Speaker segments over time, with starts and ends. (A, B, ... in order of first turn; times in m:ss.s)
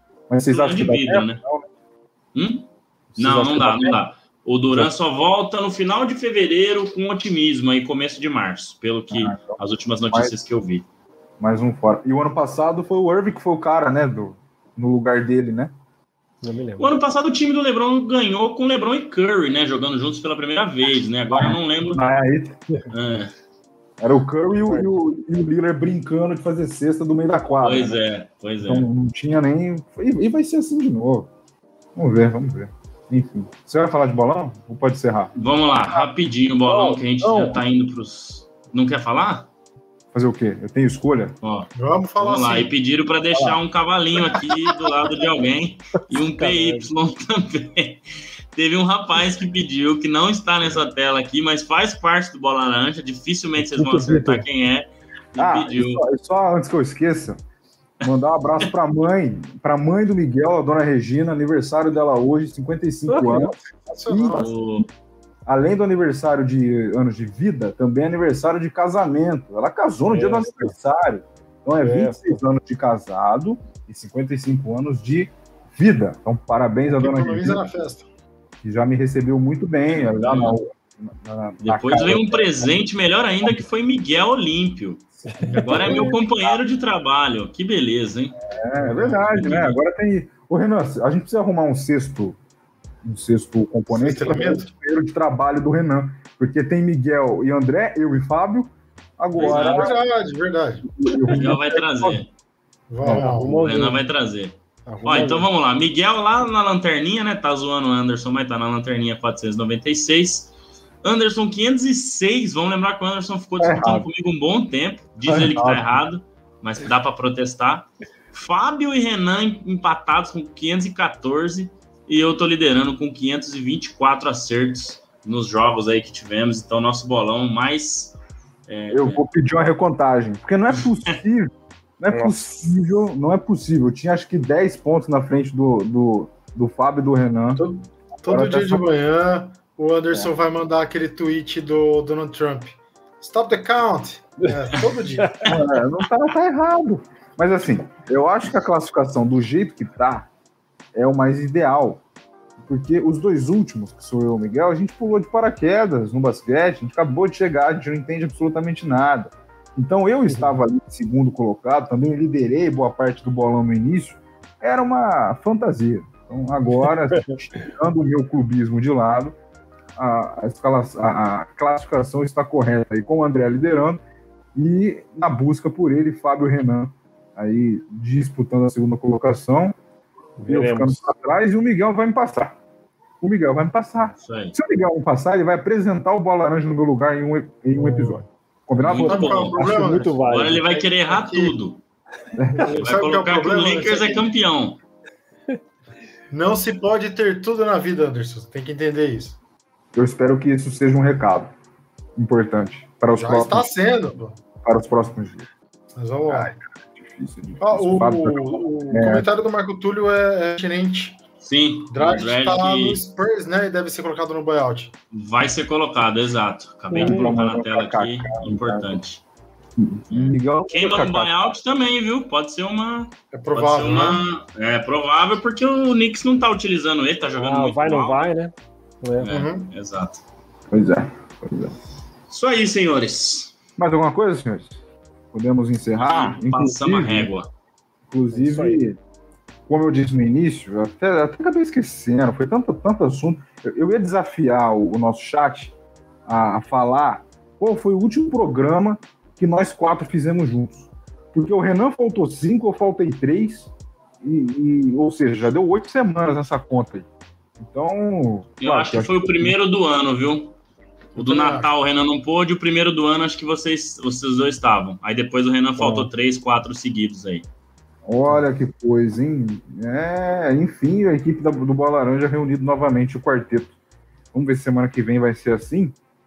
0:00.3-0:01.7 A
0:00.5-0:01.4 B
0:02.3-0:10.8 B
0:03.1-0:04.0 A
0:09.1-0:09.6 A
0:11.4-0:15.7 A
0:16.4-0:17.0 C
0:16.8-0:22.0 B
0:21.3-0:22.9 A
0:22.9-0:23.3 B
0:24.0-0:28.0 A
0:27.6-0:28.9 B
0:28.6-0:31.3 A
0:32.0-0:35.3 A
0:35.3-0:39.5 B
0:36.6-0:37.6 A
0:40.1-0:41.4 A
0:41.4-0:41.7 B
0:41.8-0:42.7 D
0:42.2-0:48.0 B
0:46.1-0:46.9 C
0:48.5-0:56.0 B
0:53.6-0:54.4 C
0:55.4-0:57.4 A
0:58.0-1:04.8 A
0:58.0-0:58.7 B
1:03.1-1:03.6 C
1:03.8-1:04.5 D
1:04.3-1:04.9 B
1:05.4-1:17.6 A
1:10.0-1:10.7 C
1:11.8-1:12.4 C
1:16.9-1:18.0 D
1:18.6-1:22.7 A
1:19.9-1:20.6 B
1:21.6-1:28.4 B
1:25.3-1:26.1 C
1:25.4-1:26.6 A
1:28.5-1:32.4 A
1:28.7-1:29.4 D
1:29.3-1:29.8 B
1:33.0-1:40.0 A
1:33.9-1:34.7 D
1:39.4-1:39.9 B
1:39.4-1:40.9 D
1:40.8-1:42.2 A
1:41.3-1:42.3 B
1:42.9-1:43.6 D
1:43.0-1:44.0 C
1:43.4-1:50.5 B
1:44.9-1:45.4 D
1:51.0-2:08.2 B
1:53.6-1:54.1 A
1:55.3-1:56.0 A
2:08.7-2:09.2 B
2:08.9-2:17.6 A
2:17.6-2:25.6 D
2:18.2-2:18.8 A
2:25.4-2:30.3 A
2:30.9-2:32.0 A
2:32.6-2:49.4 A
2:50.0-2:54.0 A
2:54.5-2:59.7 A
3:00.4-3:01.0 C
3:00.5-3:02.6 A
3:03.2-3:09.7 A
3:04.2-3:04.5 B
3:07.7-3:08.2 C
3:08.8-3:11.8 B
3:09.0-3:11.6 D
3:09.5-3:10.7 C
3:12.4-3:12.8 A
3:12.6-3:14.3 D
3:12.6-3:14.8 B
3:16.3-3:19.4 D
3:19.9-3:21.5 A
3:22.2-3:23.7 A
3:23.1-3:24.4 D
3:24.6-3:25.5 A
3:26.0-3:26.5 D
3:26.2-3:29.3 A
3:27.6-3:31.2 D
3:31.4-3:33.0 B
3:31.9-3:34.9 D
3:35.1-3:39.2 B
3:36.9-3:39.0 A
3:39.8-3:41.4 A
3:40.1-3:48.3 B
3:43.3-3:44.2 D
3:47.4-3:49.3 C
3:49.2-3:50.2 B
3:49.2-3:49.7 D
3:50.7-3:51.8 A
3:52.3-3:53.5 B
3:53.8-3:54.8 A
3:55.3-3:57.3 A
3:56.0-3:57.5 B
3:58.1-3:59.0 A
3:58.3-3:58.8 C
3:59.7-4:05.7 A
4:06.2-4:13.7 A
4:14.2-4:17.1 A
4:17.6-4:19.5 A
4:18.6-4:20.5 B
4:21.1-4:27.4 B
4:21.2-4:21.7 D
4:25.8-4:26.1 A
4:28.0-4:33.7 A
4:34.3-4:36.0 A